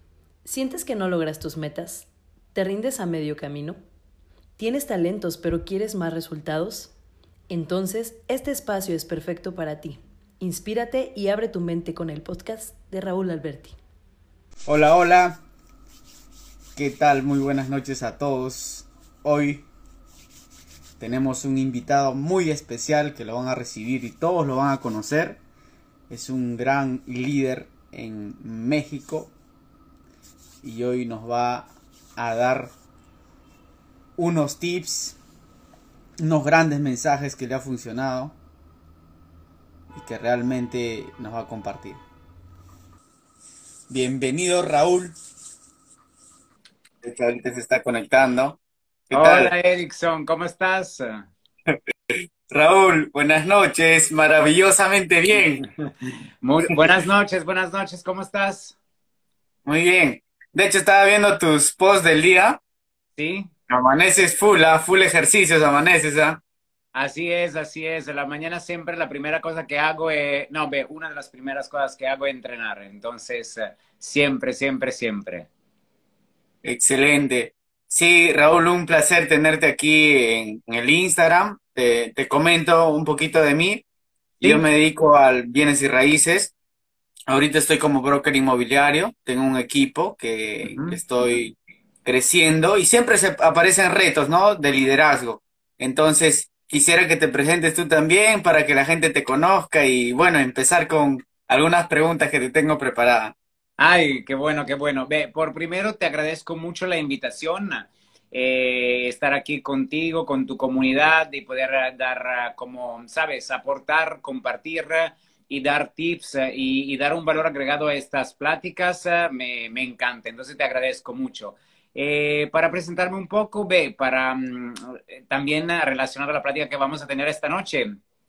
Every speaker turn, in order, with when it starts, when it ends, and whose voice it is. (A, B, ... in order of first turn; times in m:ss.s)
0:00.4-0:03.8 A
0:04.6-0:06.9 A
0:07.5-0:13.8 A
0:14.6-0:15.4 B
0:16.8-0:19.6 B
0:21.0-0:25.4 B
0:26.1-0:29.3 B
0:30.6-0:32.7 B
0:34.2-0:35.2 B
0:36.2-0:38.4 B
0:39.9-0:42.0 B
0:43.9-0:45.2 B
0:47.0-0:49.5 B
0:49.1-0:51.3 C
0:52.5-0:55.6 B
0:55.6-0:58.8 C
0:59.6-1:02.6 B
1:03.2-1:03.5 C
1:03.7-1:06.4 B
1:06.9-1:15.5 C
1:16.6-1:23.8 B
1:24.4-1:26.5 B
1:27.3-1:43.3 B
1:30.6-1:31.0 C
1:43.8-2:08.0 C